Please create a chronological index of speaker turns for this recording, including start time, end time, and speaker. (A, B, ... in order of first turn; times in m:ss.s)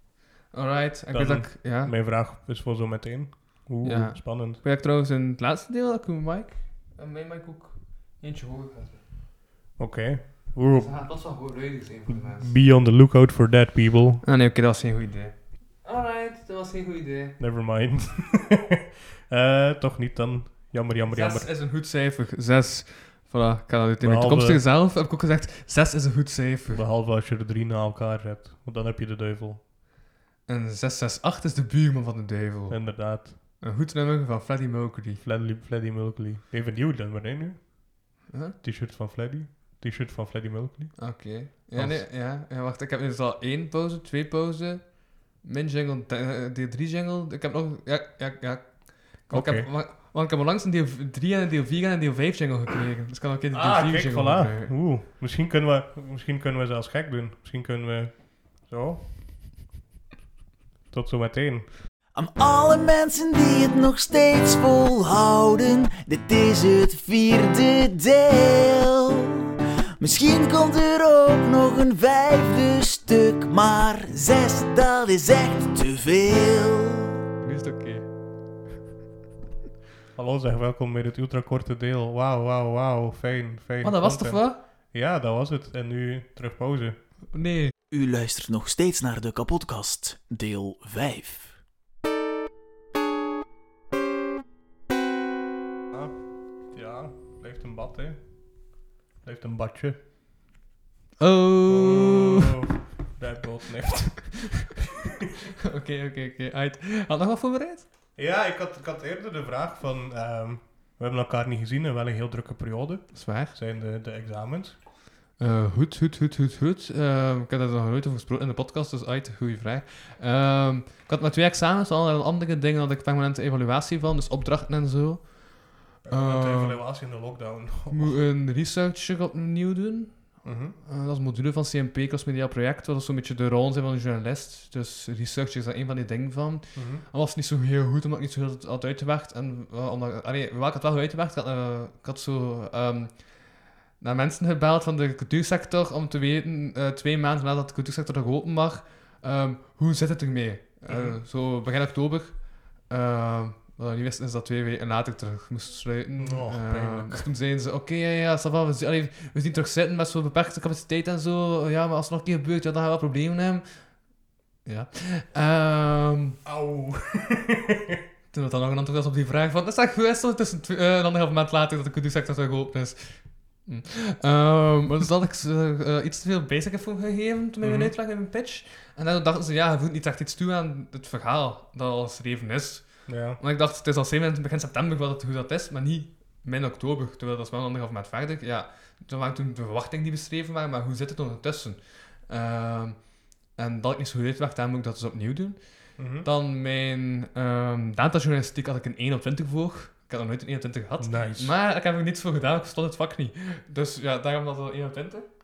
0:00.5-0:01.9 A
0:01.1-0:04.6 B
0:03.8-0:09.0 A
0:09.8-0:11.2 B
0:10.8-0:12.5 A
0:12.1-0:14.2 B
0:14.2-0:17.4 A
0:17.4-0:18.8 B
0:19.3-0:21.5 B
0:21.1-0:26.8 A
0:24.0-0:24.6 B
0:26.7-0:29.6 B
0:30.5-0:35.2 A
0:32.7-0:33.4 B
0:35.2-0:42.0 B
0:38.3-0:38.6 A
0:41.0-0:54.7 A
0:49.3-0:49.7 B
0:53.5-0:59.1 B
1:00.9-1:01.7 B
1:02.1-1:09.4 C
1:10.0-1:17.2 C
1:17.4-1:18.1 A
1:20.1-1:27.1 B
1:23.8-1:24.6 A
1:27.3-1:27.7 A
1:27.9-1:31.6 C
1:35.9-1:40.0 B
1:41.2-1:42.5 A
1:41.7-1:44.7 B
1:45.7-1:47.9 A
1:48.2-1:54.8 B
1:53.1-1:53.5 A
1:55.4-2:07.3 A
2:06.0-2:08.2 B
2:07.9-2:46.4 A
2:10.4-2:10.8 B
2:16.7-2:17.0 B
2:30.9-2:31.2 B
2:36.2-2:37.2 B
2:46.4-2:48.0 B
2:48.3-3:25.2 A
2:57.6-2:57.9 B
3:03.1-3:03.4 B
3:16.0-3:16.3 B
3:21.0-3:21.5 B